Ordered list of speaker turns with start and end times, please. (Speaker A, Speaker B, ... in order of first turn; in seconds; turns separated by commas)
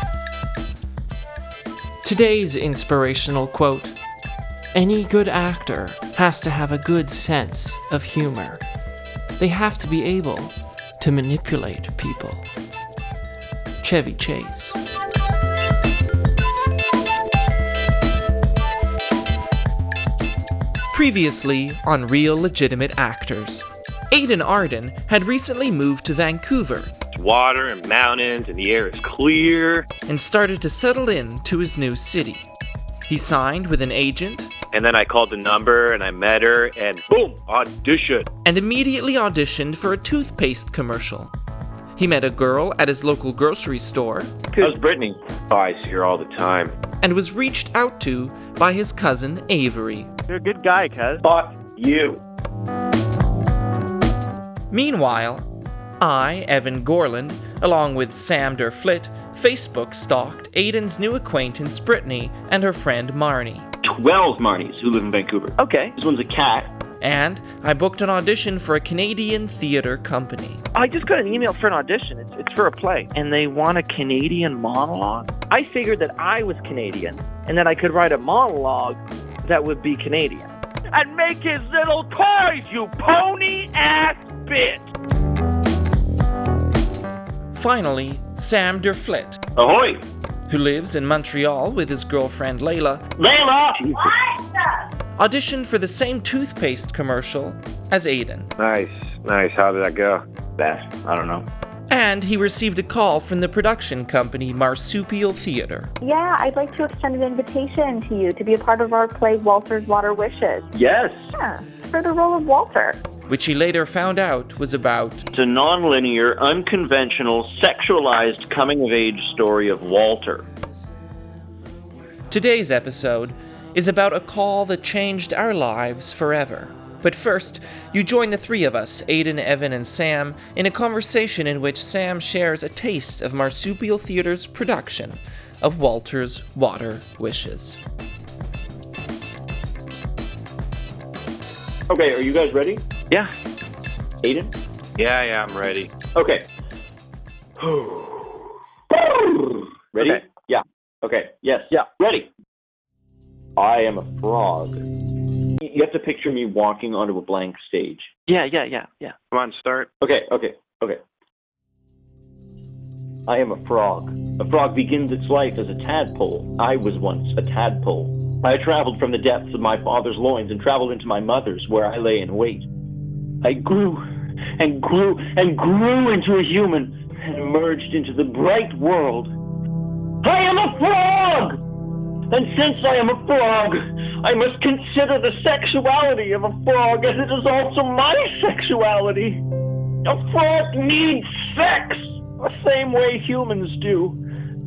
Speaker A: 2.0-4.0, Speaker A: 4.7-8.6, Speaker A: 9.4-12.4, Speaker A: 13.8-14.8, Speaker A: 20.9-26.9, Speaker B: 27.1-29.9, Speaker A: 30.1-32.4, Speaker A: 33.1-34.5, Speaker B: 34.7-38.3, Speaker A: 38.4-41.3, Speaker A: 42.0-44.3, Speaker C: 44.6-45.2, Speaker B: 45.5-46.7, Speaker A: 47.0-50.1, Speaker D: 50.3-51.2, Speaker B: 51.2-52.2, Speaker A: 54.7-55.5, Speaker A: 56.0-63.6, Speaker C: 63.8-66.7, Speaker D: 65.6-65.9, Speaker A: 67.0-70.6, Speaker D: 70.7-84.9, Speaker A: 87.5-89.4, Speaker C: 89.5-90.0, Speaker A: 90.5-93.0, Speaker C: 93.2-94.2, Speaker A: 95.2-98.5, Speaker B: 98.6-100.2, Speaker C: 100.6-101.4, Speaker A: 101.9-105.9, Speaker E: 106.0-110.7, Speaker C: 110.7-111.3, Speaker E: 111.3-113.0, Speaker A: 113.3-115.2, Speaker C: 115.3-120.5, Speaker A: 122.3-137.8, Speaker C: 141.9-142.8, Speaker C: 144.2-144.5, Speaker B: 145.0-145.9, Speaker C: 146.1-146.5, Speaker B: 147.6-148.1, Speaker C: 148.9-152.3, Speaker C: 153.6-154.8, Speaker C: 155.6-158.1, Speaker D: 158.3-159.2, Speaker B: 159.3-159.9, Speaker C: 160.0-161.0, Speaker C: 163.3-172.7, Speaker C: 173.4-174.0, Speaker C: 174.6-179.3, Speaker C: 180.2-181.6, Speaker C: 182.3-189.4, Speaker C: 190.0-194.2